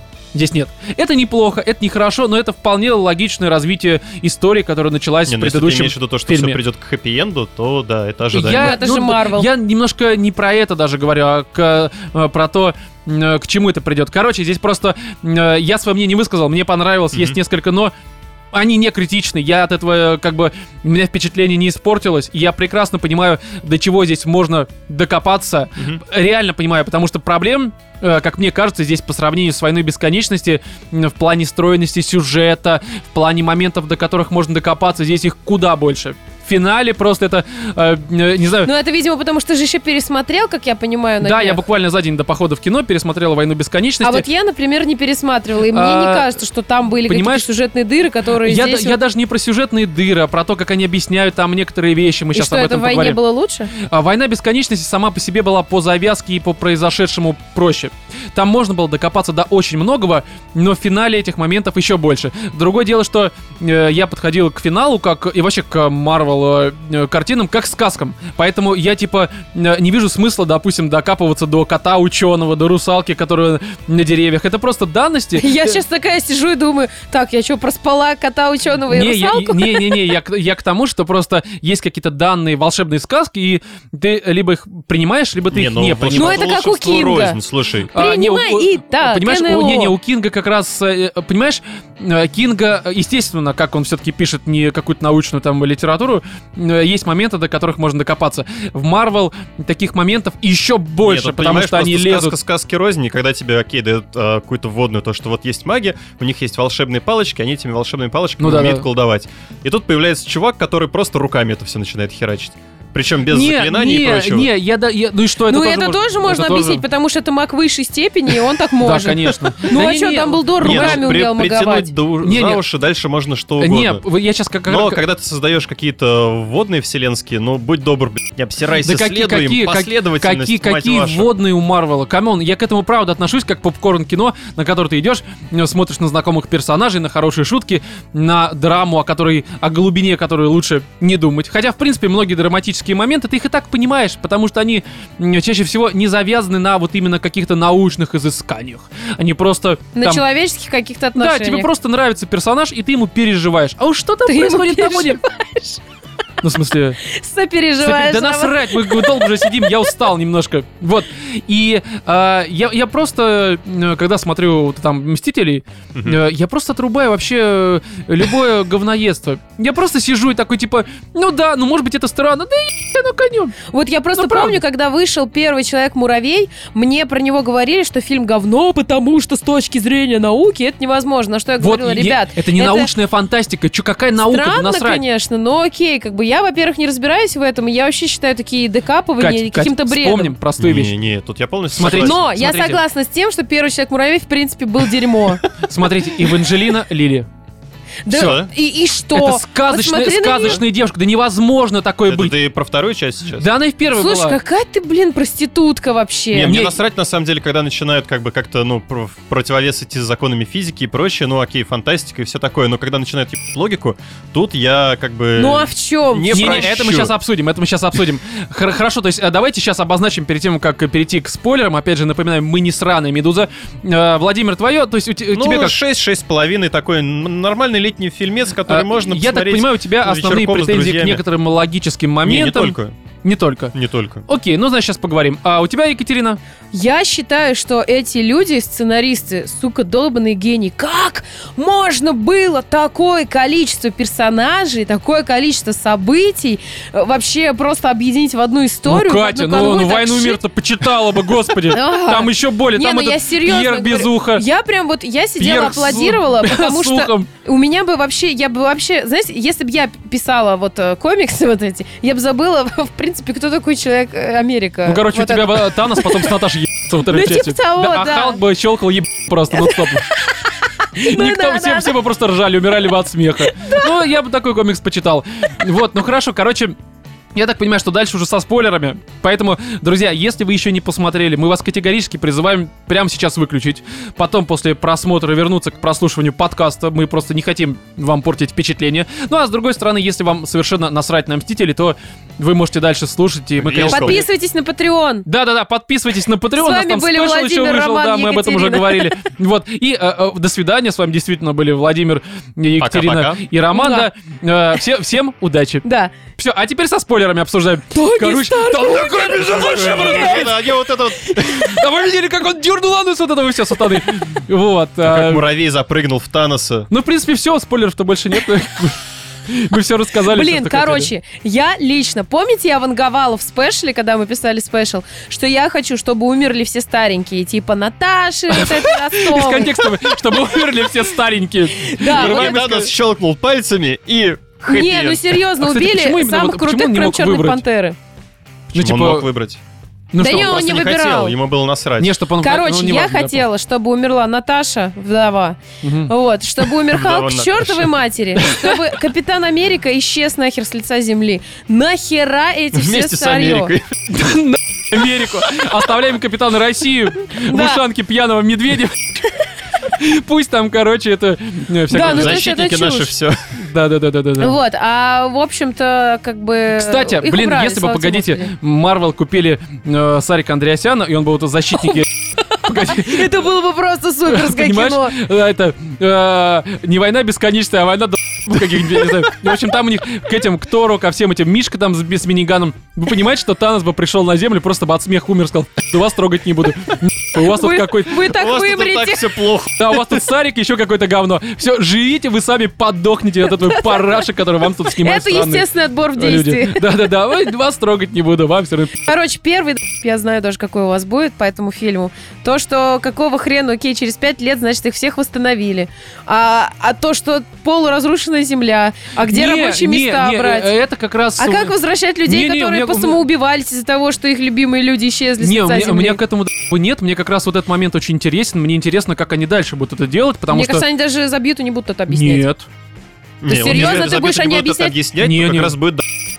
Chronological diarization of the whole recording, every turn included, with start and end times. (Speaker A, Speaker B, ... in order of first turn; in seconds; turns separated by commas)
Speaker A: 0.3-6.6, Speaker B: 5.2-8.8, Speaker A: 8.3-17.9, Speaker C: 8.4-9.5, Speaker B: 17.1-17.4, Speaker A: 18.5-38.7, Speaker C: 38.6-41.6, Speaker A: 41.2-44.2, Speaker C: 44.0-49.0, Speaker A: 45.7-46.4, Speaker A: 47.1-47.5, Speaker A: 48.4-53.2, Speaker C: 52.3-53.7, Speaker A: 53.7-75.8, Speaker C: 75.4-80.1, Speaker A: 78.9-86.5, Speaker B: 85.5-87.9, Speaker C: 86.1-87.4, Speaker A: 87.9-102.3, Speaker C: 88.0-89.9, Speaker B: 101.0-114.5, Speaker A: 108.4-108.9, Speaker A: 113.3-116.8, Speaker C: 115.5-121.9, Speaker A: 118.8-121.1, Speaker B: 120.6-124.0, Speaker A: 122.2-122.6, Speaker A: 123.6-125.0, Speaker B: 124.7-131.3, Speaker A: 128.8-150.2, Speaker C: 149.9-151.7, Speaker A: 151.2-155.2, Speaker C: 154.2-155.8, Speaker A: 156.4-157.0, Speaker C: 157.0-159.9, Speaker A: 157.8-173.6, Speaker B: 165.9-166.2, Speaker C: 173.7-182.9, Speaker A: 174.2-174.6, Speaker A: 181.6-185.0, Speaker C: 184.2-190.3, Speaker A: 189.2-190.9, Speaker B: 190.6-192.2, Speaker A: 191.7-192.8, Speaker C: 191.8-195.4, Speaker A: 195.6-197.3, Speaker C: 198.0-200.6, Speaker A: 198.1-198.4, Speaker B: 198.1-198.5, Speaker A: 199.1-202.4, Speaker B: 202.1-203.5, Speaker A: 203.4-204.4, Speaker C: 203.9-206.5, Speaker B: 206.3-217.1, Speaker A: 206.4-206.8, Speaker C: 215.4-216.7, Speaker A: 216.3-225.8, Speaker B: 225.3-231.2, Speaker A: 228.7-233.7, Speaker B: 232.2-232.9, Speaker B: 233.7-234.3, Speaker A: 234.3-236.4, Speaker C: 236.7-250.4, Speaker A: 248.9-254.4, Speaker C: 251.7-266.3, Speaker A: 255.4-257.3, Speaker A: 264.9-270.1, Speaker C: 267.0-268.4, Speaker C: 269.5-272.0, Speaker A: 270.9-276.7, Speaker C: 273.5-274.0, Speaker A: 277.3-294.2, Speaker B: 293.6-294.3, Speaker C: 293.9-295.2, Speaker A: 295.2-305.8, Speaker C: 296.6-299.1, Speaker B: 302.8-303.4, Speaker C: 303.7-304.1, Speaker C: 305.8-306.1, Speaker A: 306.4-310.5, Speaker C: 307.9-310.5, Speaker B: 309.3-311.7, Speaker A: 311.4-315.4, Speaker B: 315.0-316.9, Speaker A: 316.9-321.1, Speaker C: 320.3-331.0, Speaker A: 328.5-332.9, Speaker C: 331.7-332.7, Speaker B: 332.0-335.4, Speaker C: 334.6-337.9, Speaker A: 335.6-337.6, Speaker B: 338.7-339.6, Speaker A: 338.7-339.3, Speaker A: 340.1-340.7, Speaker C: 340.2-341.4, Speaker B: 340.2-342.1, Speaker A: 342.0-343.4, Speaker C: 342.4-353.7, Speaker A: 345.8-346.1, Speaker B: 346.8-348.0, Speaker A: 348.4-348.8, Speaker B: 352.7-353.9, Speaker A: 354.1-359.3, Speaker C: 357.4-357.8, Speaker A: 359.8-362.5, Speaker C: 361.9-363.1, Speaker B: 361.9-363.4, Speaker A: 363.6-364.6, Speaker C: 364.4-368.5, Speaker A: 366.7-373.3, Speaker C: 372.5-375.1, Speaker A: 374.3-388.3, Speaker C: 387.4-389.4, Speaker B: 388.3-390.1, Speaker A: 389.8-395.6, Speaker C: 393.6-394.1, Speaker C: 394.9-396.9, Speaker A: 396.1-399.1, Speaker C: 399.1-410.7, Speaker A: 409.3-411.7, Speaker C: 411.4-416.2, Speaker A: 412.2-413.2, Speaker A: 415.4-420.9, Speaker C: 420.5-422.5, Speaker A: 422.1-422.7, Speaker B: 423.4-426.1, Speaker C: 423.4-424.9, Speaker A: 423.7-424.0, Speaker A: 425.2-425.8